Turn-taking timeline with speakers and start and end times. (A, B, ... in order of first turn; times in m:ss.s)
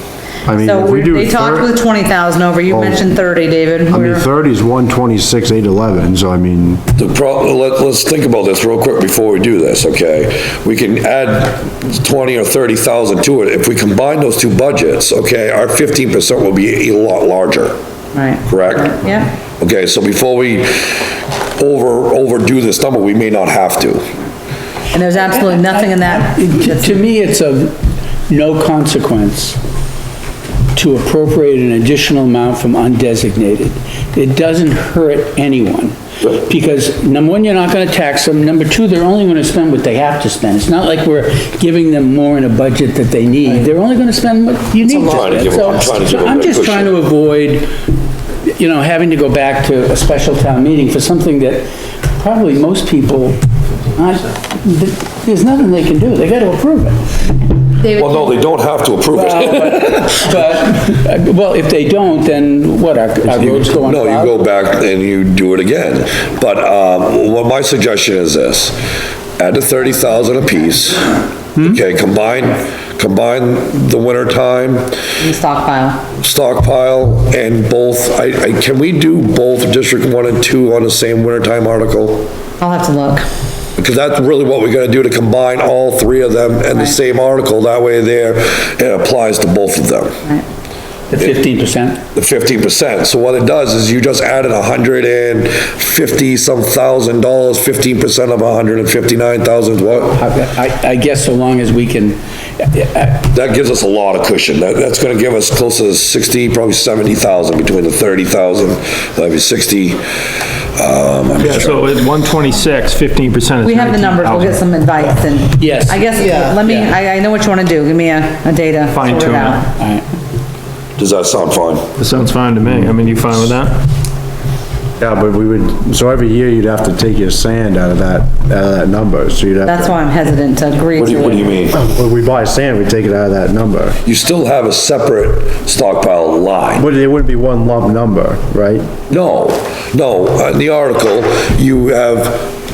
0:00.4-0:01.7 A
0:00.6-0:04.3 B
0:02.7-0:03.1 A
0:03.9-0:06.8 A
0:07.0-0:17.8 C
0:18.1-0:19.3 B
0:18.5-0:19.0 C
0:19.6-0:24.1 C
0:24.9-0:26.8 B
0:25.7-0:27.8 D
0:28.3-0:29.6 D
0:30.8-0:47.7 D
0:45.0-0:47.0 C
0:48.5-0:51.7 D
0:52.2-0:53.4 D
0:53.9-0:57.1 D
0:57.8-0:58.4 B
0:58.0-1:00.2 C
0:59.1-1:04.4 D
1:03.4-1:08.8 C
1:09.4-1:15.0 C
1:15.2-1:16.0 B
1:16.2-1:22.3 C
1:22.6-1:23.2 B
1:23.8-1:30.2 C
1:31.1-1:32.0 D
1:32.1-1:40.2 C
1:40.1-1:43.2 D
1:43.3-1:50.0 C
1:50.8-1:51.9 C
1:51.4-1:54.6 E
1:53.6-1:59.7 B
1:55.6-1:56.9 D
1:58.9-1:59.6 E
1:59.8-2:00.0 D
2:01.0-2:01.9 C
2:02.0-2:03.8 E
2:05.0-2:10.0 A
2:09.6-2:11.5 B
2:11.0-2:14.0 A
2:11.0-2:11.8 C
2:14.0-2:16.9 C
2:16.8-2:18.9 A
2:19.1-2:22.5 C